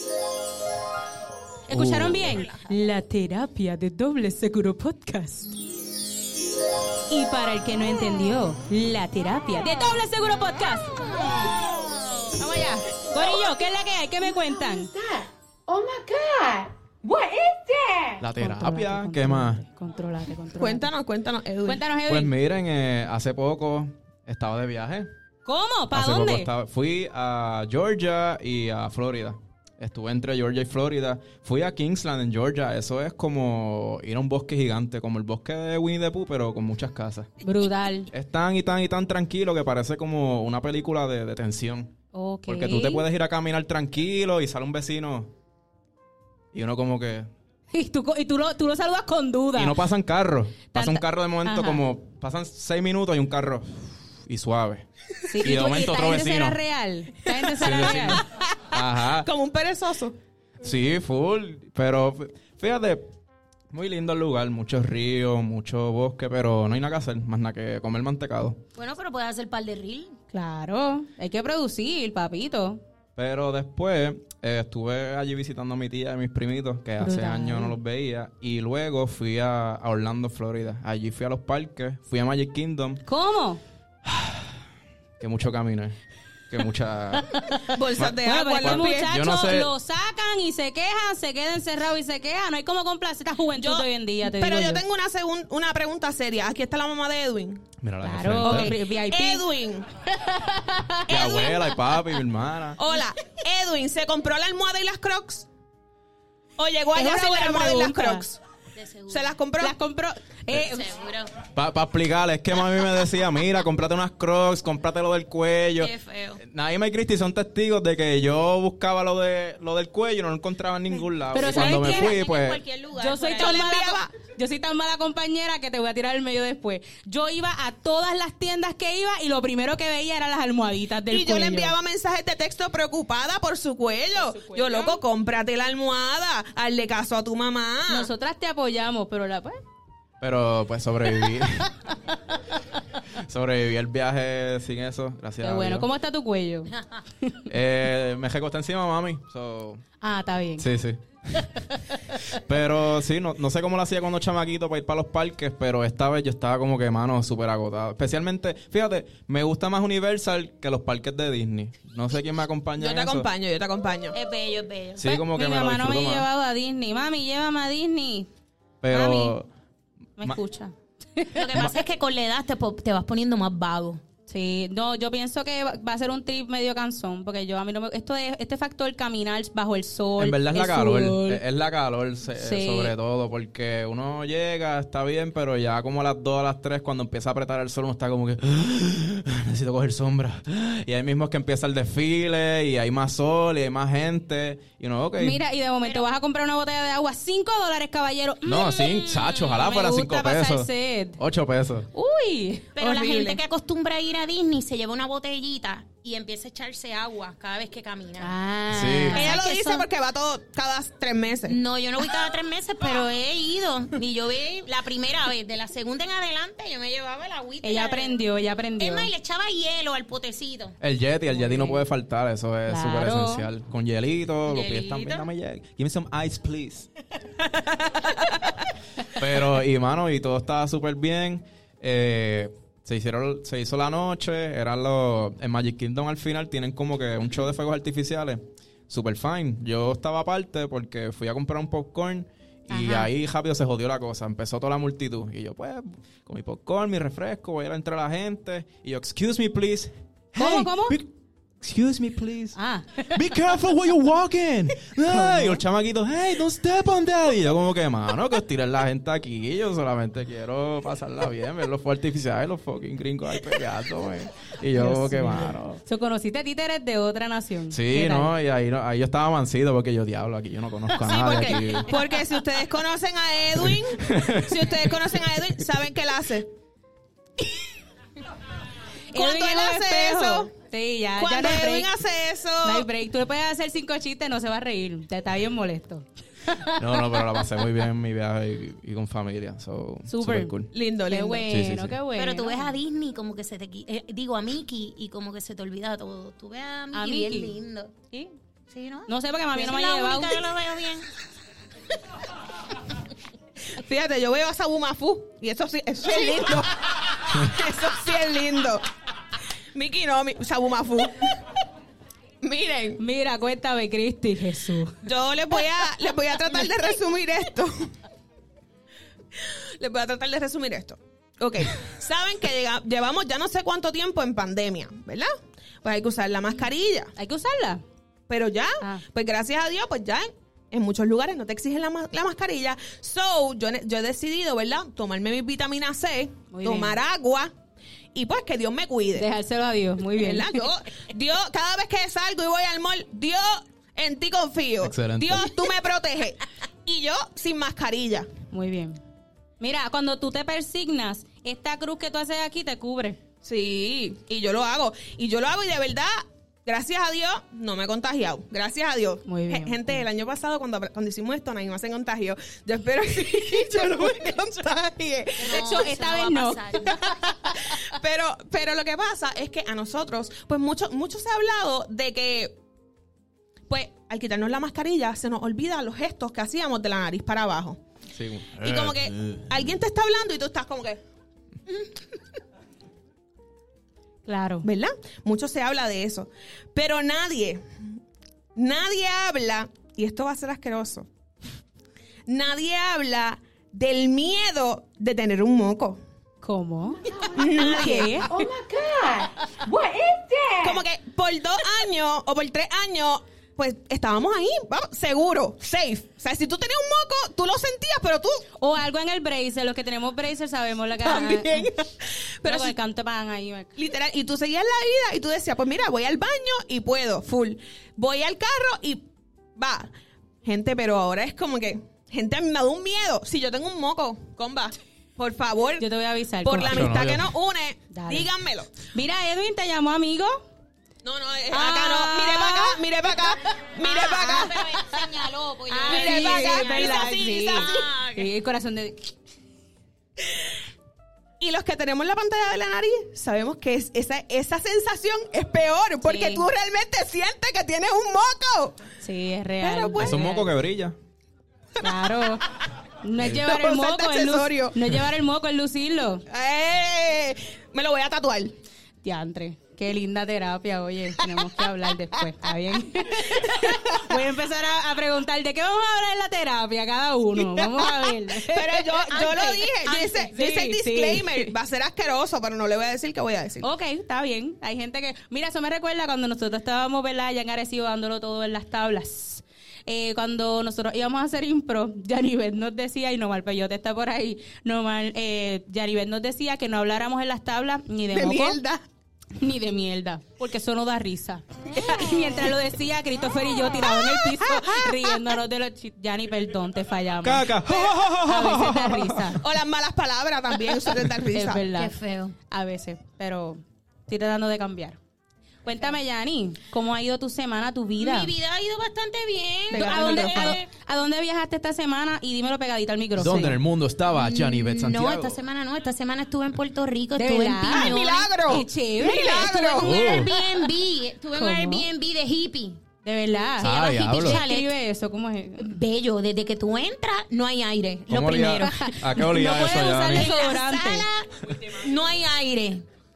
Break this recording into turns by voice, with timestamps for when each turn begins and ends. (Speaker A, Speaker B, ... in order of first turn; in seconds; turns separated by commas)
Speaker A: 1.7-5.5, Speaker B: 1.7-2.4, Speaker C: 2.2-2.8, Speaker A: 7.1-11.1, Speaker A: 12.4-14.9, Speaker D: 14.4-18.2, Speaker B: 18.2-19.6, Speaker A: 18.4-20.9, Speaker E: 20.6-21.9, Speaker A: 21.6-22.3, Speaker B: 22.1-25.1, Speaker A: 25.4-26.5, Speaker B: 25.9-37.3, Speaker A: 37.4-38.1, Speaker B: 38.1-42.0, Speaker A: 42.1-43.0, Speaker B: 42.5-45.3, Speaker B: 46.5-47.3, Speaker A: 47.7-49.8, Speaker B: 49.5-56.6, Speaker A: 50.7-51.8, Speaker A: 55.3-58.2, Speaker B: 57.5-59.3, Speaker E: 59.2-60.2, Speaker B: 60.6-63.1, Speaker B: 63.7-68.6, Speaker C: 68.8-70.2, Speaker A: 70.3-72.8, Speaker B: 73.2-83.0, Speaker A: 77.0-77.8, Speaker A: 83.0-83.6, Speaker B: 84.0-84.6, Speaker B: 85.2-86.0, Speaker B: 86.5-87.4, Speaker A: 87.3-94.8, Speaker E: 87.7-89.1, Speaker B: 87.9-89.7, Speaker E: 93.6-97.7, Speaker B: 97.8-98.8, Speaker A: 98.0-99.5, Speaker E: 98.4-99.9, Speaker A: 100.1-101.1, Speaker B: 101.1-102.8, Speaker E: 102.8-105.5, Speaker E: 106.6-108.4, Speaker A: 107.0-108.2, Speaker C: 108.8-109.4, Speaker E: 109.1-109.8, Speaker A: 109.6-110.9, Speaker C: 110.5-111.3, Speaker B: 111.5-122.6, Speaker C: 115.8-116.4, Speaker A: 121.3-122.2, Speaker C: 121.3-123.8, Speaker A: 123.0-131.8, Speaker E: 123.4-124.1, Speaker E: 131.1-138.1, Speaker A: 134.1-135.0, Speaker A: 137.9-139.6, Speaker B: 140.2-141.7, Speaker B: 143.1-145.9, Speaker A: 145.4-147.4, Speaker B: 147.5-149.8, Speaker A: 150.0-150.7, Speaker B: 150.6-151.6, Speaker A: 151.4-152.2, Speaker B: 152.2-163.3, Speaker E: 162.8-164.1, Speaker C: 164.1-165.1, Speaker B: 165.0-166.3, Speaker A: 165.0-168.3, Speaker B: 168.8-169.5, Speaker A: 168.9-169.4, Speaker A: 170.2-171.7, Speaker C: 171.3-174.0, Speaker A: 174.3-181.4, Speaker B: 180.2-195.4, Speaker A: 182.3-182.9, Speaker A: 195.2-201.2, Speaker B: 198.4-201.9, Speaker A: 201.9-202.8, Speaker C: 202.8-208.4, Speaker E: 202.8-203.4, Speaker A: 208.2-209.8, Speaker B: 208.7-209.3, Speaker E: 209.1-211.6, Speaker C: 209.3-209.8, Speaker C: 211.5-218.2, Speaker A: 217.6-219.1, Speaker C: 218.8-220.8, Speaker B: 220.8-226.9, Speaker A: 221.3-221.9, Speaker A: 222.7-223.5, Speaker C: 224.5-225.3, Speaker B: 229.1-251.1, Speaker A: 242.7-243.1, Speaker A: 250.4-251.0, Speaker B: 251.6-265.8, Speaker A: 252.5-253.4, Speaker A: 255.1-255.6, Speaker A: 264.8-268.3, Speaker B: 267.7-272.0, Speaker A: 271.0-271.9, Speaker E: 271.1-276.5, Speaker B: 273.6-274.9, Speaker A: 279.1-281.9, Speaker E: 279.1-280.5, Speaker E: 281.2-282.9, Speaker A: 282.6-287.2, Speaker B: 286.7-290.7, Speaker A: 290.1-290.5, Speaker E: 290.7-291.5, Speaker A: 291.1-292.8, Speaker B: 291.5-292.0, Speaker C: 292.1-297.9, Speaker A: 296.9-297.5, Speaker C: 298.7-301.1, Speaker A: 299.1-300.4, Speaker E: 303.7-308.9, Speaker E: 309.7-311.4, Speaker E: 312.4-313.0, Speaker A: 313.0-315.0, Speaker E: 315.0-317.9, Speaker E: 319.3-325.3, Speaker E: 325.8-327.1, Speaker A: 327.1-327.8, Speaker E: 328.3-337.5, Speaker A: 336.5-337.0, Speaker E: 338.1-339.3, Speaker A: 339.1-340.6, Speaker E: 340.1-348.3, Speaker B: 344.8-345.5, Speaker A: 348.5-349.0, Speaker A: 349.6-353.2, Speaker E: 353.4-365.9, Speaker A: 359.2-360.0, Speaker C: 365.4-367.0, Speaker A: 365.4-366.9, Speaker E: 366.9-372.6, Speaker E: 373.7-377.8, Speaker B: 378.1-379.4, Speaker E: 378.5-381.0, Speaker A: 384.2-384.7, Speaker E: 384.6-387.7, Speaker E: 388.5-391.1, Speaker E: 392.3-396.0, Speaker A: 396.4-398.4, Speaker D: 397.1-397.4, Speaker E: 397.3-398.3, Speaker D: 398.2-400.9, Speaker E: 400.6-408.4, Speaker A: 408.6-411.7, Speaker E: 411.0-412.8, Speaker A: 412.4-413.8, Speaker E: 413.8-419.9, Speaker E: 420.4-425.9, Speaker A: 425.8-426.9, Speaker E: 426.4-428.7, Speaker B: 426.6-427.3, Speaker A: 427.9-428.3, Speaker A: 428.9-430.4, Speaker E: 431.0-434.6, Speaker A: 431.5-432.8, Speaker C: 433.8-438.3, Speaker A: 435.7-439.1, Speaker E: 435.8-437.9, Speaker E: 441.4-448.8, Speaker A: 446.0-446.5, Speaker A: 449.0-450.5, Speaker E: 449.6-450.2, Speaker B: 450.0-451.0, Speaker A: 451.8-452.4, Speaker A: 453.0-456.2, Speaker E: 453.2-454.8, Speaker E: 456.3-458.6, Speaker A: 459.0-471.5, Speaker E: 463.2-464.1, Speaker E: 467.4-473.7, Speaker C: 469.1-470.3, Speaker A: 473.6-488.6, Speaker E: 488.1-488.8, Speaker A: 489.4-499.4, Speaker E: 493.8-495.2, Speaker B: 497.2-499.4, Speaker E: 499.4-501.7, Speaker A: 501.3-502.0, Speaker C: 501.7-502.4, Speaker A: 502.5-505.0, Speaker A: 505.6-508.3, Speaker C: 508.0-510.7, Speaker E: 509.7-510.6, Speaker A: 509.7-513.6, Speaker B: 513.2-515.4, Speaker C: 514.1-518.6, Speaker A: 517.2-519.9, Speaker E: 517.7-520.4, Speaker C: 519.3-522.8, Speaker B: 519.8-520.3, Speaker A: 521.3-521.9, Speaker A: 523.0-525.7, Speaker C: 523.6-524.8, Speaker B: 523.6-524.4, Speaker C: 525.6-528.9, Speaker B: 528.1-530.4, Speaker A: 528.6-531.1, Speaker C: 529.9-532.8